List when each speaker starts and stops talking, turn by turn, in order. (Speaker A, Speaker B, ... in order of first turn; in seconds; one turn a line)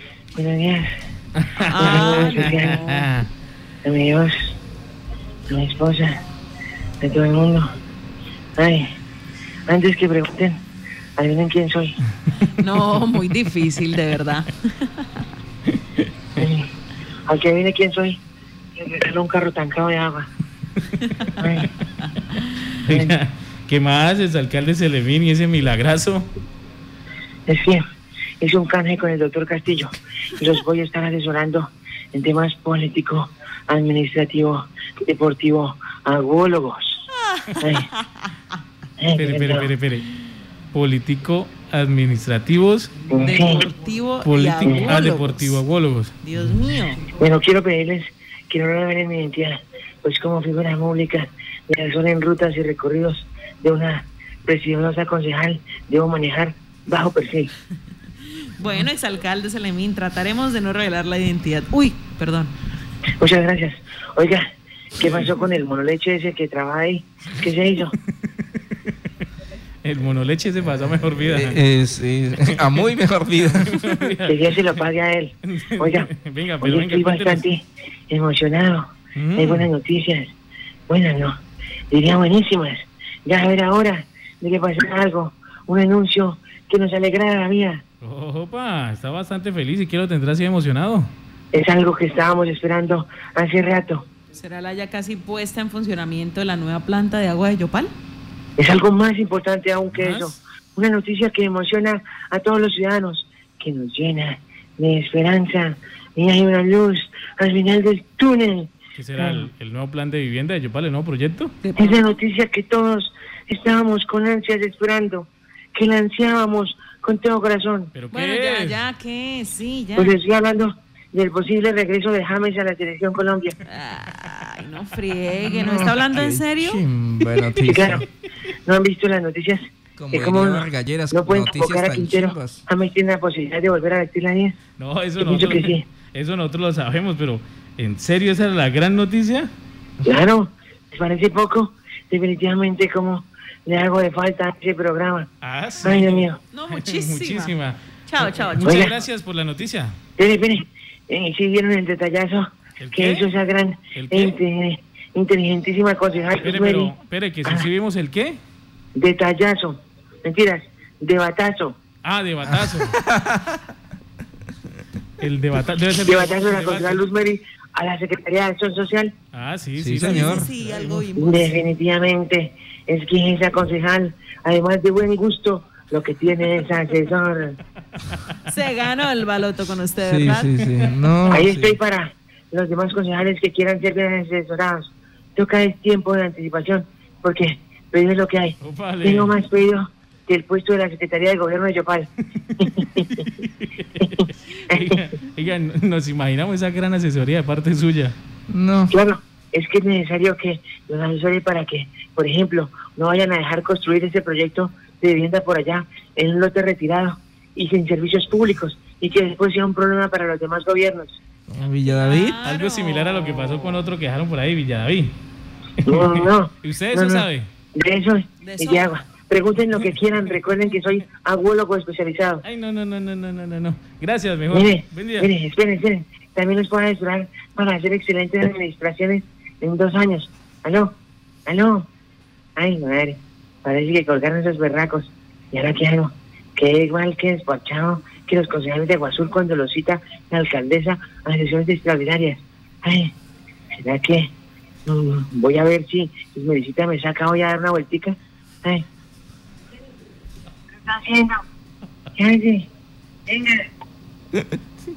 Speaker A: 0.3-0.9
Speaker B: 1.4-3.3
Speaker C: 1.6-3.1
Speaker A: 1.8-2.8
Speaker A: 3.9-4.5
Speaker A: 5.5-6.2
Speaker A: 7.0-7.7
Speaker A: 8.6-8.9
Speaker A: 9.7-10.6
Speaker A: 11.2-12.0
Speaker C: 12.5-14.9
Speaker A: 16.4-16.7
Speaker A: 17.3-18.2
Speaker A: 18.8-20.3
Speaker A: 21.4-21.7
Speaker B: 22.9-26.3
Speaker A: 27.5-27.8
Speaker A: 28.4-37.0
Speaker C: 37.4-37.9
Speaker A: 37.6-37.9
Speaker A: 39.0-39.7
Speaker B: 39.2-40.1
Speaker B: 40.7-42.9
Speaker A: 43.1-43.6
Speaker C: 43.2-45.6
Speaker B: 44.2-46.1
Speaker A: 44.6-44.9
Speaker C: 46.2-47.0
Speaker A: 47.1-57.5
Speaker C: 58.6-62.5
Speaker A: 63.2-64.5
Speaker A: 65.0-68.0
Speaker B: 65.0-65.3
Speaker B: 69.8-71.6
Speaker D: 71.2-73.9
Speaker B: 73.4-74.8
Speaker A: 74.3-76.1
Speaker B: 75.4-77.5
Speaker A: 76.6-80.3
Speaker B: 79.2-79.7
Speaker A: 80.9-81.4
Speaker A: 81.9-87.8
Speaker B: 88.0-91.1
Speaker A: 91.5-94.1
Speaker C: 94.3-97.9
Speaker A: 98.6-109.5
Speaker B: 99.9-100.4
Speaker B: 109.0-111.6
Speaker C: 111.6-112.0
Speaker A: 111.8-117.9
Speaker B: 117.9-118.8
Speaker C: 118.1-120.2
Speaker A: 120.0-123.6
Speaker C: 123.7-126.8
Speaker D: 125.5-128.1
Speaker A: 127.6-128.1
Speaker A: 128.7-134.6
Speaker D: 130.0-132.6
Speaker B: 134.8-139.5
Speaker A: 135.2-135.8
Speaker A: 140.0-145.3
Speaker B: 145.4-149.9
Speaker A: 145.8-146.4
Speaker C: 146.5-147.5
Speaker C: 148.1-148.9
Speaker A: 148.7-148.9
Speaker A: 150.2-156.9
Speaker B: 152.8-153.3
Speaker B: 153.9-154.3
Speaker B: 156.4-158.4
Speaker A: 159.0-161.8
Speaker B: 162.0-163.0
Speaker D: 162.5-163.6
Speaker B: 165.2-167.1
Speaker A: 166.0-169.1
Speaker B: 169.3-171.1
Speaker D: 169.8-170.5
Speaker C: 170.0-171.6
Speaker A: 171.2-177.6
Speaker C: 178.5-180.7
Speaker D: 180.0-181.8
Speaker A: 181.3-192.1
Speaker B: 188.6-189.3
Speaker A: 192.6-193.3
Speaker B: 192.6-198.2
Speaker A: 194.0-195.0
Speaker D: 198.5-198.9
Speaker A: 198.9-211.2
Speaker D: 211.5-212.4
Speaker C: 211.8-213.7
Speaker B: 212.4-215.2
Speaker B: 215.9-217.5
Speaker A: 215.9-222.4
Speaker C: 218.4-219.0
Speaker B: 222.4-225.3
Speaker A: 224.5-230.9
Speaker A: 231.5-231.9
Speaker A: 232.6-243.1
Speaker A: 243.8-244.3
Speaker A: 244.9-248.8
Speaker A: 250.8-251.4
Speaker A: 252.2-252.7
Speaker A: 253.3-253.7